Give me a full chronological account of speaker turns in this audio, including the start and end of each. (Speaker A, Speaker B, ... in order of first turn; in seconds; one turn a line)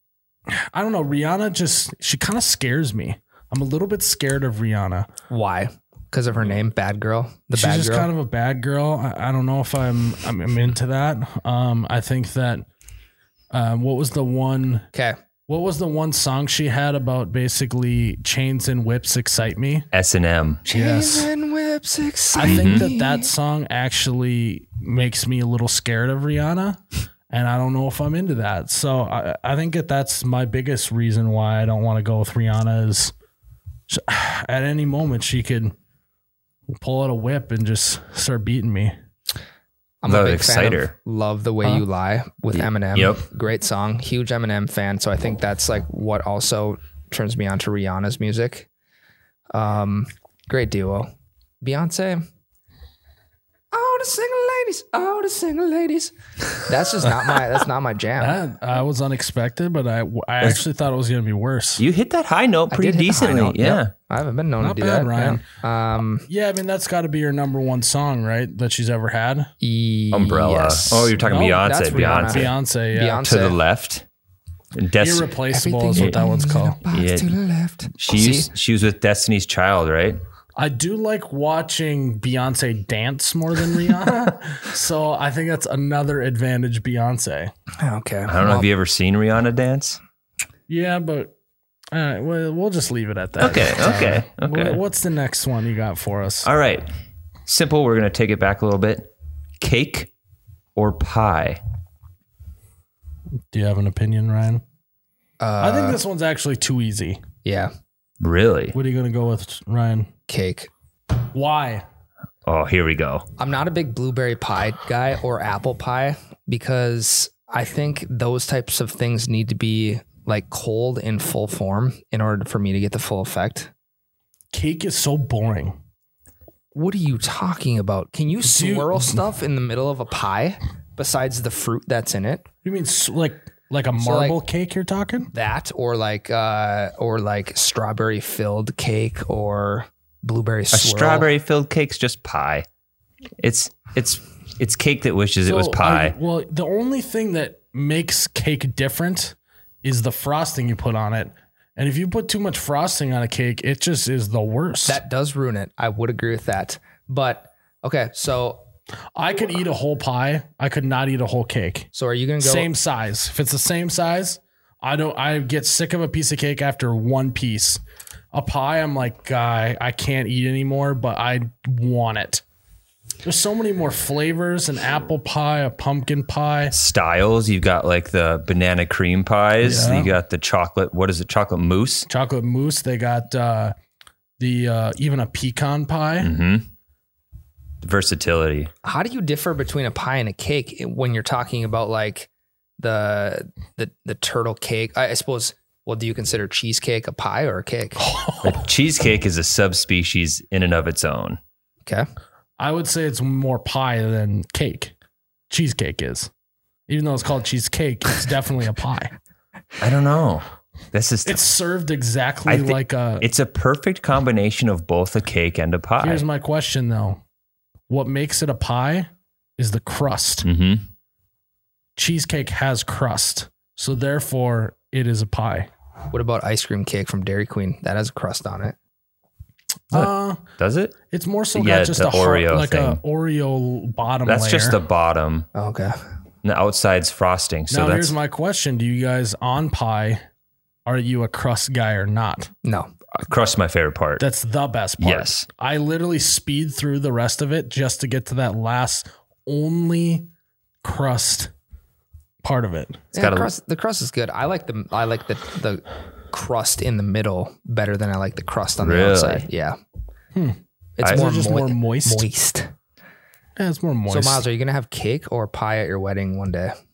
Speaker A: 0.5-5.1
Speaker B: 5.3-8.1
Speaker A: 7.5-12.7
Speaker A: 13.5-14.8
Speaker A: 15.5-19.9
Speaker C: 19.9-20.6
Speaker B: 20.6-23.3
Speaker A: 20.7-21.3
Speaker A: 22.3-33.1
Speaker C: 22.4-22.8
Speaker A: 33.9-35.7
Speaker A: 36.7-38.9
Speaker B: 40.0-48.7
Speaker C: 40.0-40.9
Speaker C: 42.9-43.2
Speaker B: 49.5-51.1
Speaker B: 51.6-52.2
Speaker B: 53.7-58.4
Speaker A: 58.2-61.8
Speaker C: 61.8-63.9
Speaker B: 62.7-66.2
Speaker A: 64.6-65.4
Speaker A: 66.3-69.5
Speaker B: 69.6-73.6
Speaker C: 70.1-72.5
Speaker A: 71.2-73.2
Speaker C: 73.2-74.0
Speaker C: 74.7-75.3
Speaker A: 75.0-76.8
Speaker B: 75.5-78.5
Speaker C: 76.9-77.3
Speaker C: 78.0-80.2
Speaker A: 80.5-87.5
Speaker B: 87.8-88.7
Speaker C: 88.3-90.0
Speaker A: 90.7-91.3
Speaker A: 91.9-96.5
Speaker C: 93.4-94.8
Speaker C: 96.4-96.9
Speaker C: 97.5-100.1
Speaker C: 100.8-101.6
Speaker A: 103.5-104.6
Speaker B: 105.4-106.0
Speaker A: 105.6-107.2
Speaker B: 107.4-107.7
Speaker C: 108.2-108.7
Speaker A: 108.7-110.1
Speaker B: 110.3-110.7
Speaker A: 111.3-111.8
Speaker C: 112.5-113.2
Speaker B: 113.4-123.7
Speaker A: 124.5-125.8
Speaker B: 126.7-132.4
Speaker A: 128.4-129.2
Speaker A: 132.6-135.3
Speaker B: 134.0-134.4
Speaker B: 135.3-141.3
Speaker C: 140.7-142.7
Speaker C: 143.4-146.2
Speaker A: 145.4-155.0
Speaker B: 154.9-158.6
Speaker A: 159.1-161.9
Speaker B: 161.9-162.7
Speaker A: 162.4-167.8
Speaker A: 168.3-172.4
Speaker A: 173.2-176.7
Speaker C: 176.7-182.1
Speaker A: 179.6-180.1
Speaker A: 182.1-183.7
Speaker A: 184.4-186.3
Speaker C: 186.2-186.7
Speaker C: 187.8-188.7
Speaker B: 188.8-198.0
Speaker A: 198.0-198.6
Speaker C: 198.4-201.4
Speaker A: 202.6-204.9
Speaker A: 205.5-206.3
Speaker A: 206.9-209.1
Speaker C: 209.8-211.4
Speaker A: 211.2-213.3
Speaker C: 212.5-216.2
Speaker A: 216.0-217.2
Speaker A: 217.9-220.4
Speaker C: 220.4-220.8
Speaker A: 221.9-225.7
Speaker B: 226.1-228.8
Speaker A: 229.9-230.4
Speaker C: 229.9-230.9
Speaker A: 231.1-234.8
Speaker C: 231.5-233.0
Speaker C: 234.2-235.5
Speaker B: 235.5-235.9
Speaker C: 236.4-238.2
Speaker A: 237.7-240.2
Speaker A: 240.8-242.5
Speaker B: 242.6-242.9
Speaker C: 243.2-244.2
Speaker A: 244.2-250.3
Speaker C: 245.0-245.4
Speaker A: 250.8-251.5
Speaker A: 252.4-253.1
Speaker C: 253.1-253.5
Speaker B: 253.1-259.8
Speaker C: 258.8-259.5
Speaker A: 260.3-262.2
Speaker B: 261.0-262.7
Speaker A: 263.6-264.4
Speaker B: 264.1-266.7